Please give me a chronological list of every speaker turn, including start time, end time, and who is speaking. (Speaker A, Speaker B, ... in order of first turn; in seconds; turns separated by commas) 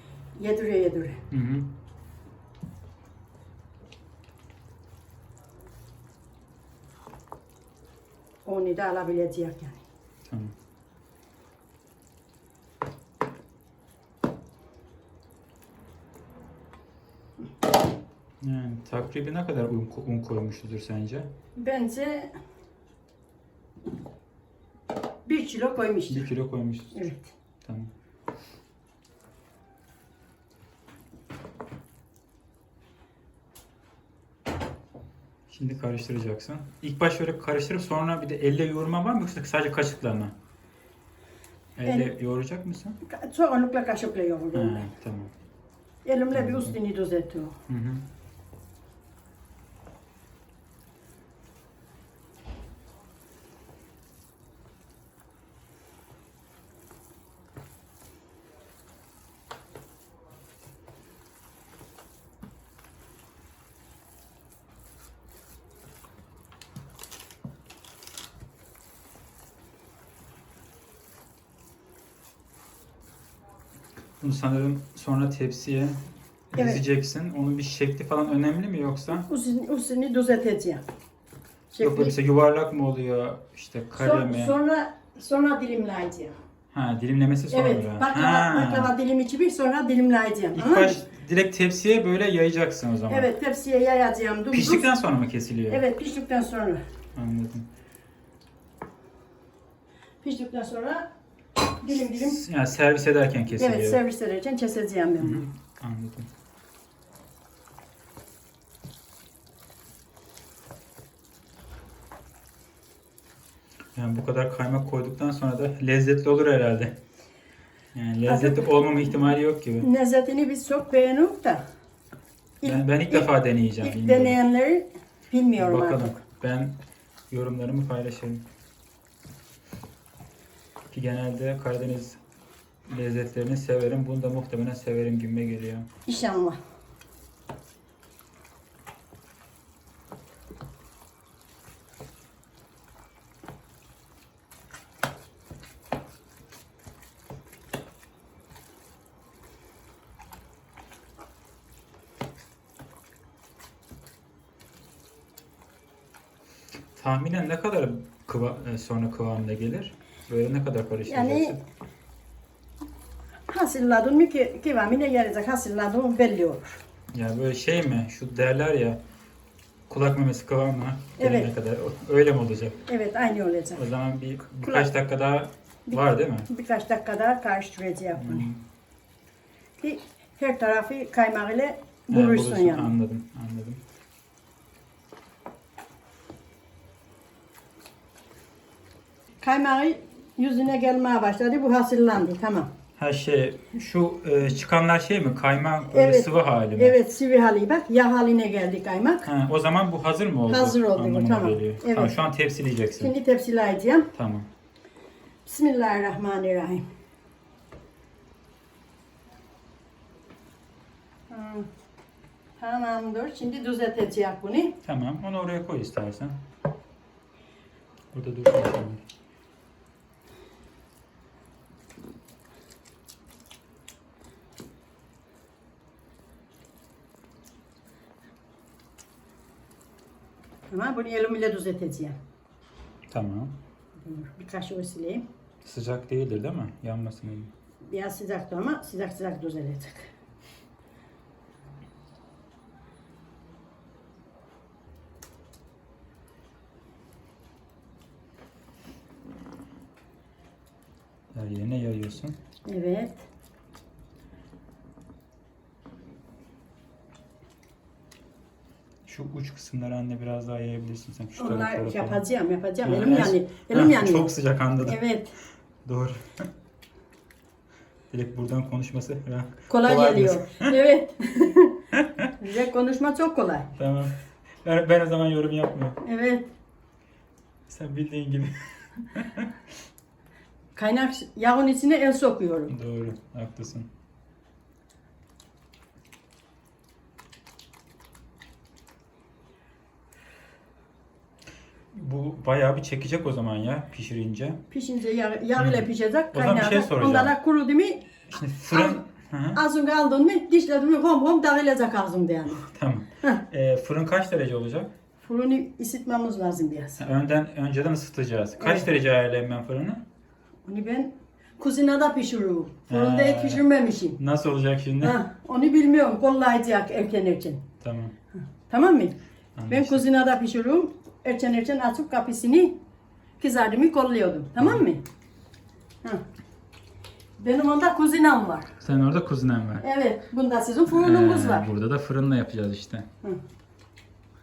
Speaker A: 0.4-1.2, Speaker B: 1.3-1.7, Speaker A: 8.4-9.8, Speaker B: 10.2-10.5, Speaker B: 18.4-21.3, Speaker A: 21.6-22.3, Speaker A: 25.2-26.3, Speaker B: 26.1-27.0, Speaker A: 26.9-27.3, Speaker B: 27.6-27.9, Speaker B: 35.5-40.3, Speaker B: 41.8-43.0, Speaker A: 41.8-42.1, Speaker A: 43.0-44.9, Speaker B: 44.5-45.3, Speaker A: 46.0-47.5, Speaker B: 46.3-46.7, Speaker B: 47.7-48.0, Speaker B: 74.2-76.0, Speaker B: 76.5-79.3, Speaker A: 76.5-76.8, Speaker A: 79.1-80.8, Speaker A: 81.7-82.1, Speaker B: 81.8-84.5, Speaker A: 83.9-86.3, Speaker B: 86.7-88.9, Speaker A: 87.5-91.0, Speaker B: 90.5-93.3, Speaker A: 93.1-94.9, Speaker B: 94.5-95.8, Speaker A: 95.7-96.8, Speaker B: 97.1-97.7, Speaker A: 100.2-101.1, Speaker A: 101.6-102.4, Speaker B: 102.1-104.0, Speaker A: 103.5-105.5, Speaker B: 105.2-106.3, Speaker B: 113.9-117.0, Speaker B: 117.9-119.9, Speaker A: 118.3-118.8, Speaker A: 119.8-121.6, Speaker A: 122.6-123.3, Speaker B: 122.6-124.4, Speaker A: 123.8-126.2, Speaker B: 125.6-126.8, Speaker B: 127.3-128.4, Speaker B: 130.9-132.2, Speaker B: 132.9-135.9, Speaker A: 136.1-136.6, Speaker B: 156.9-161.6, Speaker A: 161.1-161.6, Speaker A: 163.5-166.8, Speaker B: 167.1-169.0, Speaker B: 169.9-172.8, Speaker A: 171.2-171.5, Speaker A: 172.9-173.8, Speaker B: 173.8-176.5, Speaker A: 174.6-174.9, Speaker A: 175.9-178.5, Speaker B: 178.2-178.6, Speaker A: 179.8-182.9, Speaker B: 182.1-183.8, Speaker A: 189.4-192.7, Speaker B: 193.0-197.0, Speaker A: 195.9-199.3, Speaker B: 199.2-203.1, Speaker A: 200.5-202.2, Speaker A: 203.0-204.1, Speaker B: 204.1-204.5, Speaker A: 205.4-206.8, Speaker A: 211.3-211.7, Speaker A: 212.6-214.8, Speaker B: 214.8-216.4, Speaker B: 218.1-219.0, Speaker A: 230.7-232.2, Speaker B: 233.1-233.6, Speaker A: 234.0-235.2, Speaker B: 235.6-237.5, Speaker A: 237.9-240.1, Speaker B: 251.3-252.4, Speaker A: 252.7-253.2, Speaker B: 259.1-262.2, Speaker A: 261.4-265.4, Speaker B: 262.8-265.0, Speaker B: 265.9-266.4, Speaker B: 268.1-270.7, Speaker A: 269.7-271.8, Speaker B: 271.9-272.3, Speaker A: 272.4-273.7, Speaker B: 273.8-276.0, Speaker A: 276.0-276.5, Speaker B: 277.7-278.6, Speaker B: 279.1-279.5, Speaker A: 280.8-282.7, Speaker B: 282.7-283.9, Speaker B: 291.9-294.6, Speaker A: 294.7-298.1, Speaker B: 295.6-297.3, Speaker B: 298.3-299.6, Speaker A: 298.7-299.0, Speaker A: 299.5-302.6, Speaker B: 302.6-304.9, Speaker A: 305.2-307.0, Speaker B: 307.0-310.0, Speaker A: 308.6-308.9, Speaker A: 310.6-314.2, Speaker B: 312.9-313.6, Speaker B: 314.2-315.2, Speaker A: 315.0-317.6, Speaker B: 317.8-318.1, Speaker A: 318.7-319.2, Speaker B: 319.6-320.0, Speaker A: 319.7-322.8, Speaker A: 323.4-325.0, Speaker B: 324.6-324.8, Speaker A: 327.4-328.7, Speaker B: 328.8-329.8, Speaker A: 329.8-331.7, Speaker B: 330.9-333.1